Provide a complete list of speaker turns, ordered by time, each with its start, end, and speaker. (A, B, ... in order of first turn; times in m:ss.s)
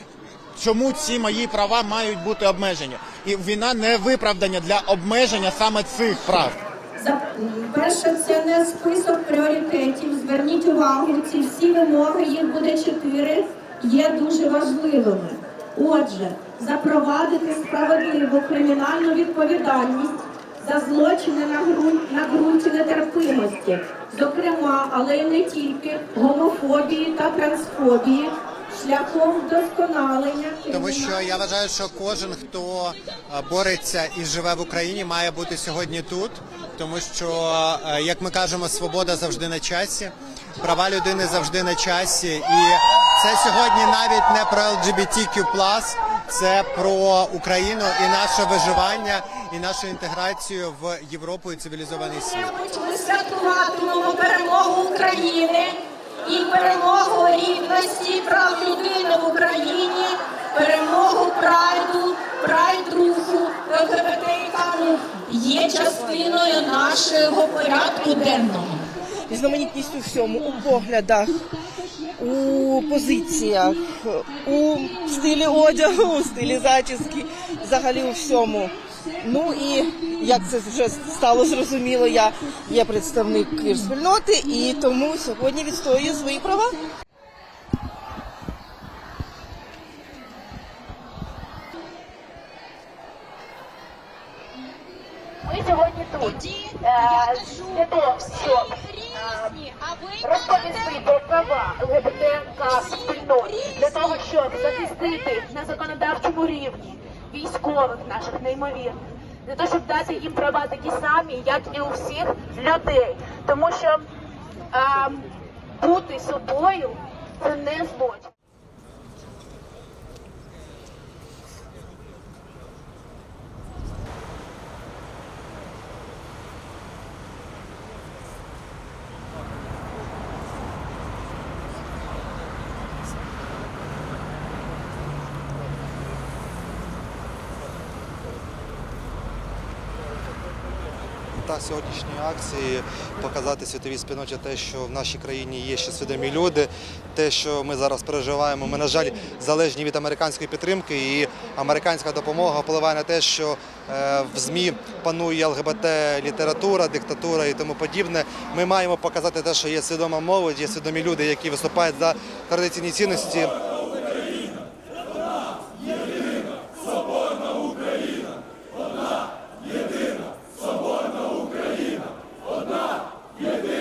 0:00.6-0:06.6 A
0:07.0-0:31.1 B
0:30.7-0:52.5 C
0:52.4-1:08.9 B
1:09.3-1:11.5 D
1:12.2-1:26.8 D
1:35.4-1:54.1 E
1:54.7-1:55.3 E
1:55.8-1:58.3 E
2:21.4-2:43.5 F